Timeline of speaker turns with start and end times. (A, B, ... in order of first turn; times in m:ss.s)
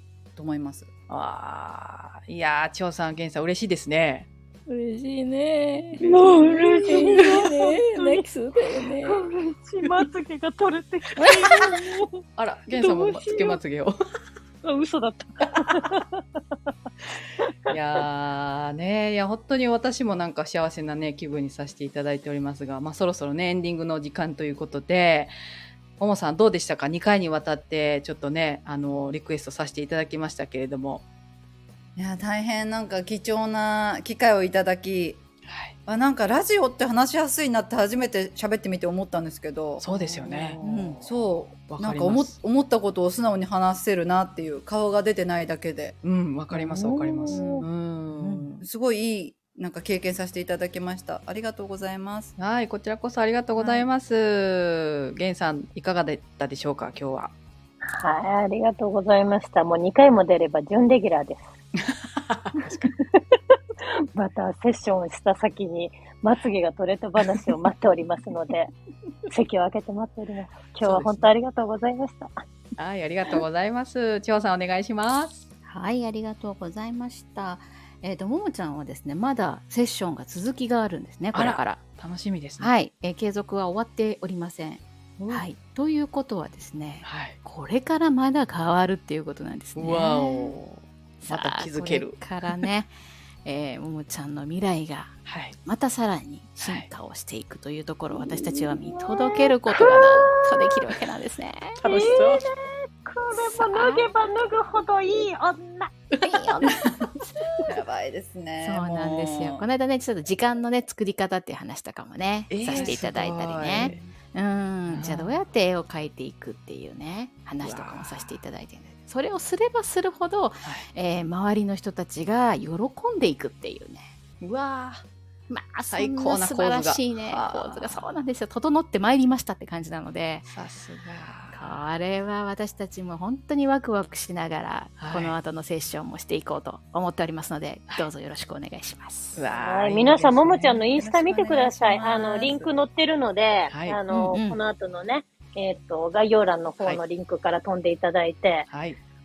0:00.4-0:00.9 A
0:01.1-0:04.3 B
0:04.7-0:09.2 C
0:06.0-0:08.3 D
0:09.0-0:12.2 D
0:11.2-0:11.6 C
0:12.4-0:13.9 B
0:12.7-0:13.6 D
0:14.6-0:16.2 D
0:17.7-0:25.3 B
0:26.0-0:31.0 B
0:32.0-0:35.2 A
0:35.4-0:35.7 B
0:35.8-0:39.8 A
0:39.8-0:40.6 B
0:40.5-0:45.9 A
0:40.6-0:41.0 C
0:41.7-0:42.4 B
0:46.0-0:48.6 B
0:46.7-0:47.6 D
0:47.3-0:47.6 A
0:48.1-0:48.5 C
0:48.6-0:52.3 A
0:52.4-0:57.3 B
0:53.6-0:53.9 A
0:57.9-1:01.5 D
1:02.0-1:02.9 B
1:04.1-1:08.7 D
1:09.3-1:12.4 D
1:10.8-1:11.3 B
1:12.8-1:15.4 B
1:15.6-1:21.8 C
1:21.3-1:22.7 B
1:22.6-1:30.5 C
1:25.2-1:25.4 A
1:27.0-1:27.4 B
1:29.8-1:32.6 B
1:31.2-1:32.9 C
1:33.4-1:41.8 C
1:35.2-1:35.5 B
1:36.6-1:36.9 B
1:38.4-1:40.3 D
1:41.8-1:42.4 B
1:41.8-1:42.5 D
1:43.0-1:45.9 D
1:43.3-1:44.1 C
1:46.2-1:47.7 C
1:47.7-1:49.7 A
1:48.6-2:04.1 C
1:52.5-1:54.1 B
1:52.7-1:53.0 A
1:54.9-1:55.4 B
1:57.6-1:58.4 B
2:04.4-2:05.0 B
2:05.5-2:10.5 C
2:05.9-2:08.0 B
2:10.5-2:11.8 B
2:11.5-2:19.4 C
2:15.0-2:15.4 B
2:19.3-2:20.4 B
2:19.6-2:28.7 D
2:20.3-2:22.7 A
2:23.7-2:24.0 B
2:24.1-2:24.6 C
2:28.7-2:29.0 B